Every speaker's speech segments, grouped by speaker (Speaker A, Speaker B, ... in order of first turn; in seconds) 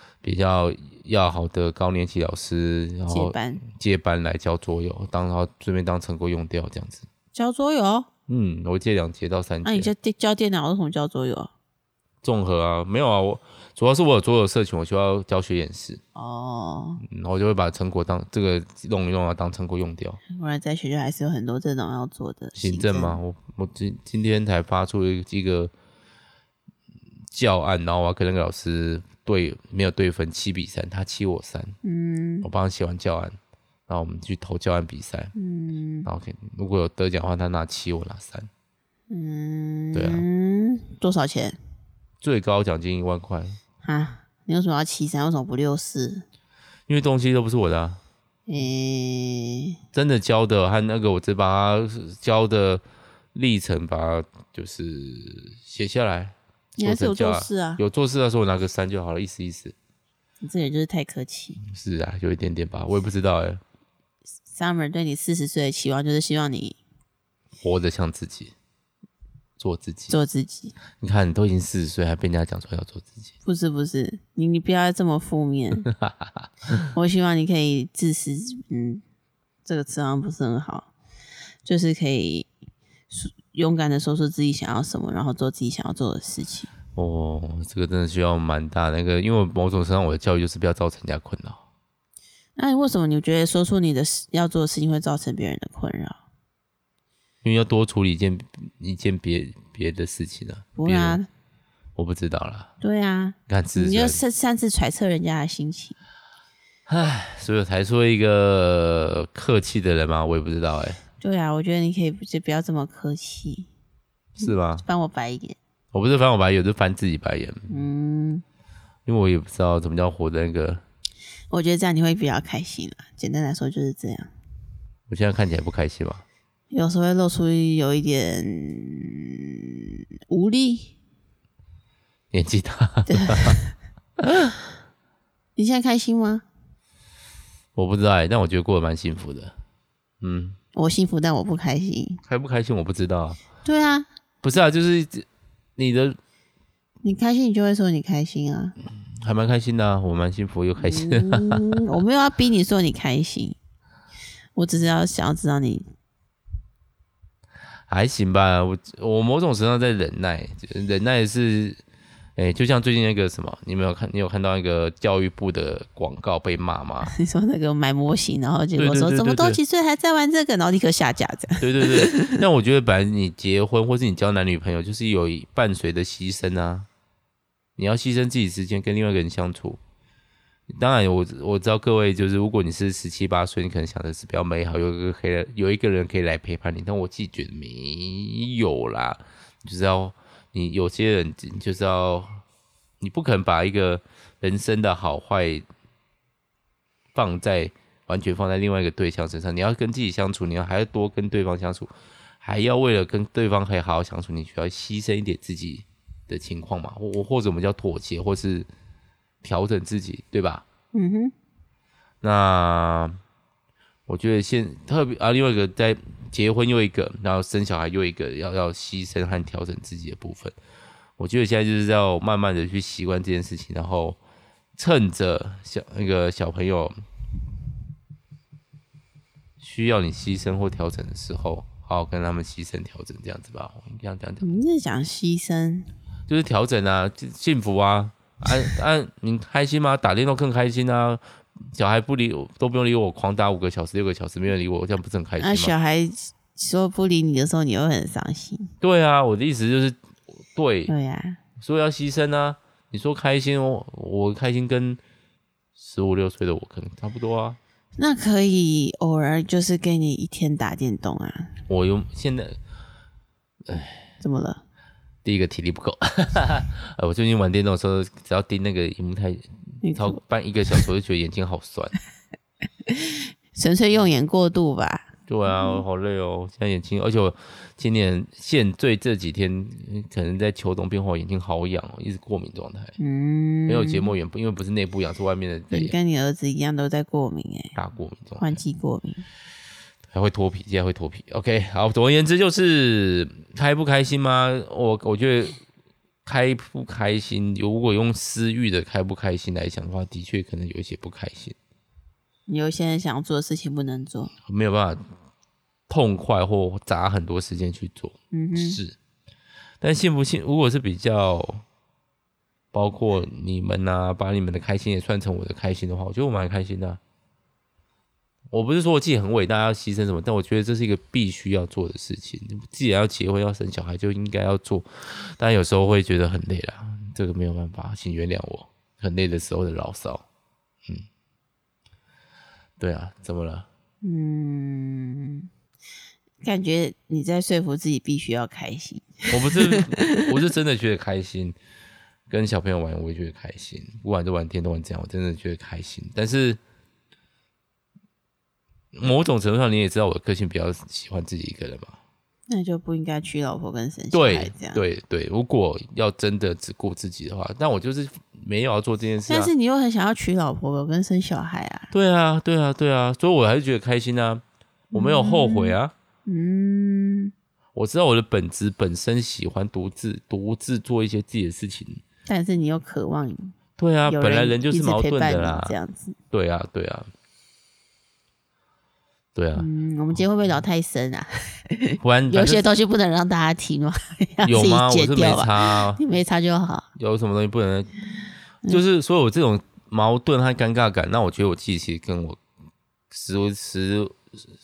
Speaker A: 0.2-7.1, 8.3-9.9, 12.2-16.0, 17.0-20.2, 22.6-25.7, 27.3-31.8, 32.4-33.4, 33.9-35.3, 36.0-38.5, 39.9-40.3, 42.2-43.6, 46.9-48.0, 49.9-52.8, 53.3-59.8, 61.6-63.6, 67.6-68.5, 69.6-70.2, 71.0-73.3, 75.9-76.9, 86.9-91.6, 97.4-101.2, 102.0-102.7, 103.5-104.2, 106.9-111.0, 114.4-114.8, 115.9-117.8, 119.1-120.8, 125.1-126.2, 132.3-133.6, 134.2-134.6, 137.8-139.6, 140.2-140.6, 142.3-143.4, 144.4-145.3, 145.8-146.2, 148.8-151.9, 157.9-161.8, 162.4-167.1, 168.8-169.6, 171.6-176.9, 177.8-179.8, 180.7-192.4, 193.0-195.7, 197.2-208.7, 209.4-210.7, 212.2-213.2, 214.1-220.6, 221.2-224.2, 224.8-227.0, 229.6-234.4, 236.3-245.7, 248.8-250.0, 250.5-250.9, 251.6-255.0, 255.8-257.6, 261.7-262.6, 263.7-264.1, 265.2-272.0, 275.3-283.0, 283.7-286.0, 287.8-288.6, 290.1-295.6, 296.2-301.6, 304.5-305.1, 305.9-309.0, 309.8-311.6, 312.7-317.0, 318.5-330.2, 332.8-333.7, 339.3-341.6, 342.3-346.6, 348.9-352.0, 354.1-359.5, 361.9-365.9, 367.8-372.0, 373.8-375.8, 376.3-377.1, 379.4-379.7, 382.0-382.6, 384.4-386.0, 387.0-387.9, 388.7-392.4, 393.1-394.2
Speaker B: 3.1-3.6, 7.3-8.1, 9.7-11.5, 16.1-17.0, 20.3-23.2, 31.8-32.5, 35.4-36.1, 39.1-41.6, 43.8-46.2, 48.5-49.8, 56.8-57.8, 60.4-61.6, 64.5-66.8, 70.1-70.8, 73.4-75.9, 76.9-79.0, 79.7-80.9, 81.7-82.5, 83.1-86.7, 92.6-96.2, 100.8-101.3, 102.8-106.0, 111.2-113.7, 114.4-115.6, 117.7-118.4, 121.5-124.3, 126.7-130.9, 133.1-133.7, 135.6-136.4, 140.7-142.2, 143.7-144.1, 147.0-148.8, 150.8-153.6, 154.6-155.9, 167.1-172.4, 210.9-211.3, 234.4-235.9, 245.4-248.7, 250.9-251.4, 258.0-261.6, 264.2-264.6, 269.8-270.2, 272.9-275.8, 283.0-284.1, 285.7-287.8, 288.4-289.2, 302.5-304.3, 308.3-308.8, 334.0-335.5, 336.4-340.3, 352.5-354.8, 359.3-361.9, 364.9-367.3, 372.3-376.2, 379.6-386.9